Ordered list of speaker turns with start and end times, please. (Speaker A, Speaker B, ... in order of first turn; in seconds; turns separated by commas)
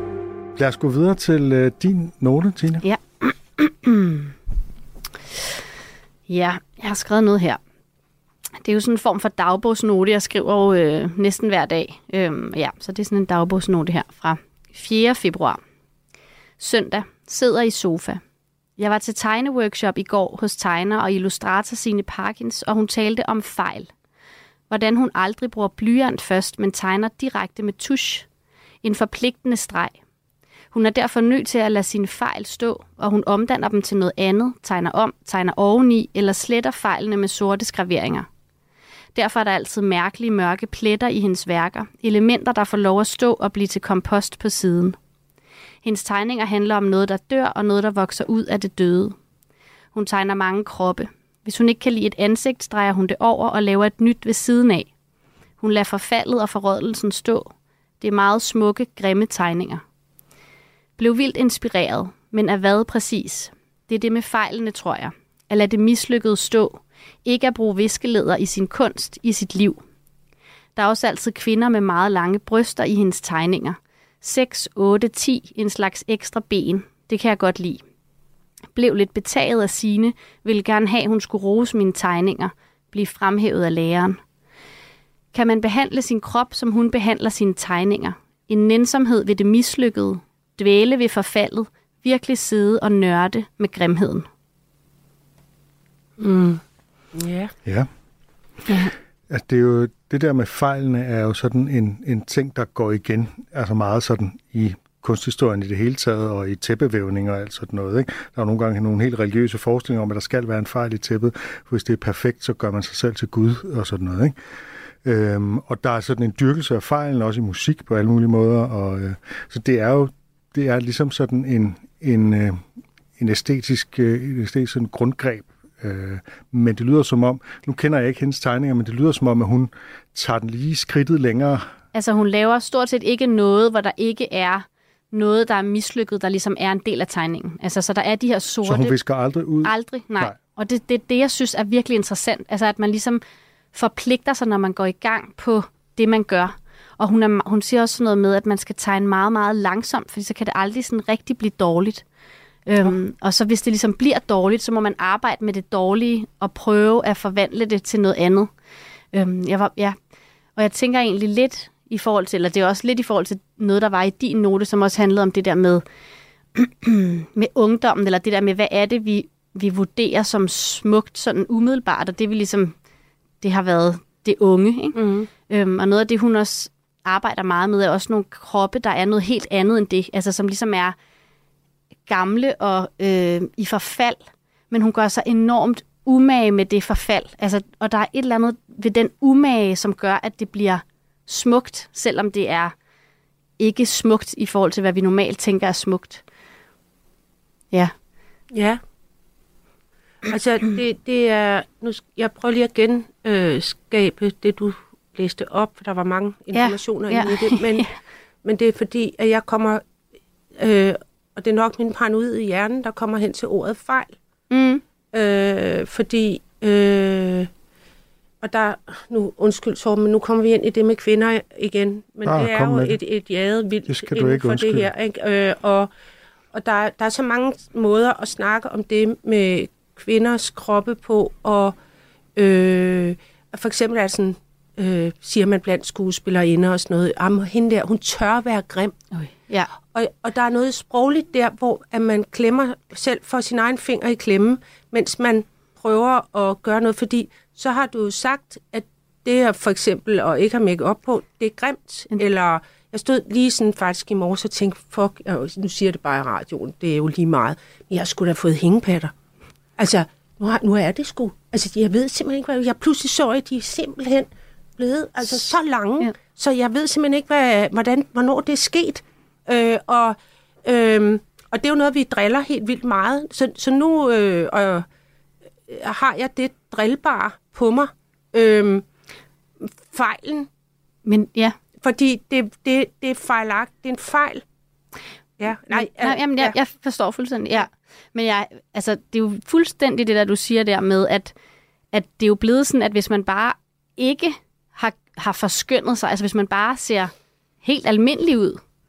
Speaker A: 0.6-2.9, Speaker B: 2.8-4.3, Speaker B: 6.3-7.6, Speaker B: 8.6-15.6, Speaker B: 16.6-18.2, Speaker B: 18.8-23.9, Speaker B: 24.7-28.3, Speaker B: 28.8-29.9, Speaker B: 30.7-38.3, Speaker B: 39.1-45.0, Speaker B: 45.8-49.1, Speaker B: 49.9-54.9, Speaker B: 55.6-59.8, Speaker B: 61.0-69.8, Speaker B: 70.8-77.8, Speaker B: 78.8-84.2, Speaker B: 85.3-94.3, Speaker C: 96.2-96.6, Speaker C: 97.1-97.5, Speaker A: 99.3-114.3, Speaker A: 115.0-122.6, Speaker A: 123.2-131.7, Speaker B: 131.9-139.0, Speaker A: 138.6-140.4, Speaker B: 139.6-143.2, Speaker B: 143.7-152.0, Speaker B: 152.7-158.5, Speaker B: 159.1-160.0, Speaker B: 160.6-165.8, Speaker B: 166.6-172.7, Speaker B: 173.4-175.0, Speaker C: 174.9-175.3, Speaker B: 175.5-180.9, Speaker B: 182.1-192.7, Speaker B: 193.6-196.2, Speaker C: 198.5-198.8, Speaker C: 200.3-207.8, Speaker B: 206.5-207.9, Speaker C: 208.4-209.8, Speaker C: 210.6-214.2, Speaker B: 214.5-214.8, Speaker C: 215.1-217.5, Speaker C: 218.4-225.9, Speaker A: 222.2-223.0, Speaker A: 223.9-224.9, Speaker C: 226.5-231.8, Speaker C: 232.4-239.0, Speaker B: 239.2-239.7, Speaker C: 239.9-259.1, Speaker C: 259.8-274.9, Speaker C: 275.7-278.8, Speaker C: 279.6-280.5, Speaker B: 281.1-281.6, Speaker C: 281.8-284.4, Speaker C: 285.4-286.6, Speaker B: 285.7-291.3, Speaker B: 291.9-297.1, Speaker B: 297.6-298.6